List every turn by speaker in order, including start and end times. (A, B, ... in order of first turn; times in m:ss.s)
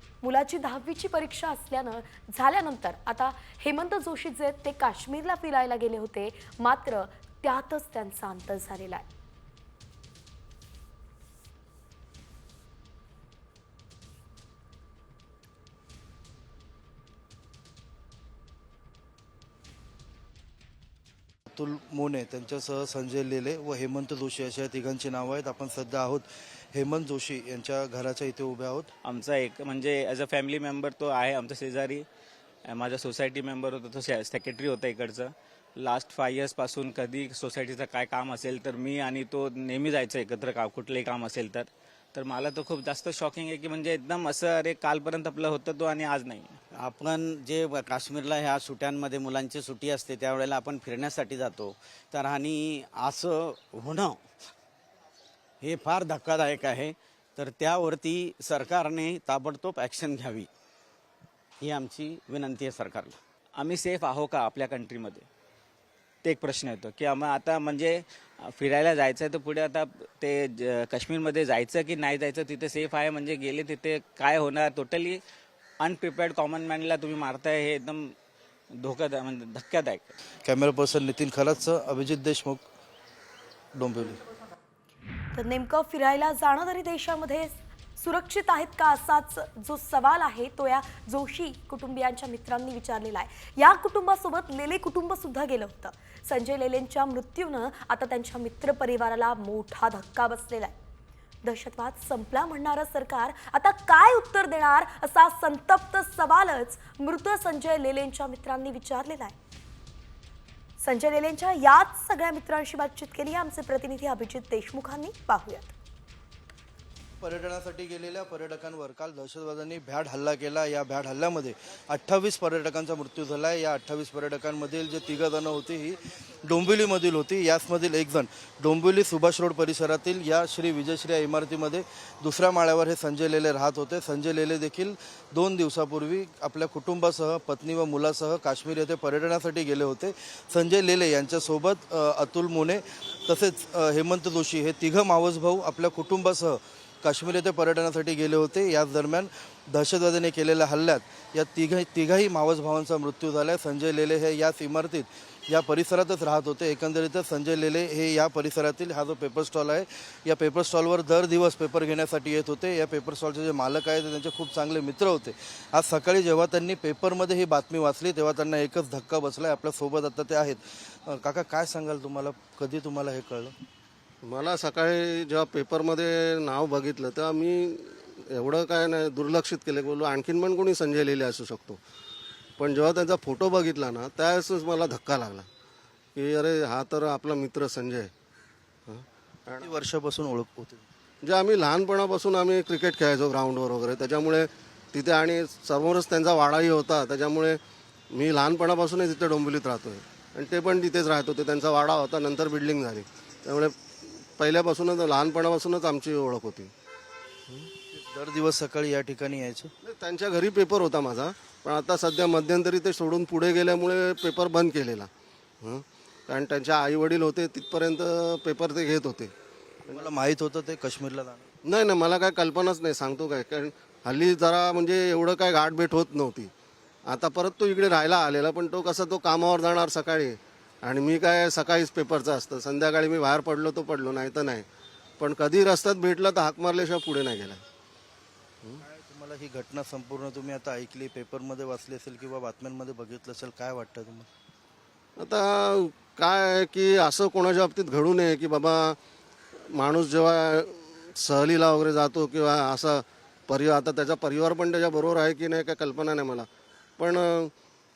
0:00.2-0:09.0 A
0:21.5-0:28.9 B
0:29.0-0:32.0 C
0:32.7-0:46.6 C
0:46.7-0:54.2 D
0:55.6-1:00.5 D
1:01.6-1:03.2 D
1:03.6-1:05.2 C
1:06.2-1:15.2 C
1:15.8-1:18.1 C
1:18.8-1:20.1 C
1:20.4-1:22.6 B
1:23.7-1:24.2 B
1:25.3-1:40.7 A
1:41.4-1:49.3 A
1:50.8-1:55.7 A
1:57.2-2:53.5 B
2:54.2-3:01.8 E
3:02.6-3:05.5 E
3:06.2-3:08.1 E
3:08.9-3:09.7 E
3:09.6-3:10.8 B
3:11.2-3:26.7 E
3:27.9-3:29.7 B
3:29.8-3:35.1 E
3:35.6-3:39.3 E
3:39.8-3:41.5 B
3:41.6-3:46.5 E
3:47.1-3:54.6 E
3:55.2-3:57.6 E
3:58.8-4:04.3 B
4:05.2-4:09.0 E
4:09.7-4:16.5 E
4:17.0-4:17.5 E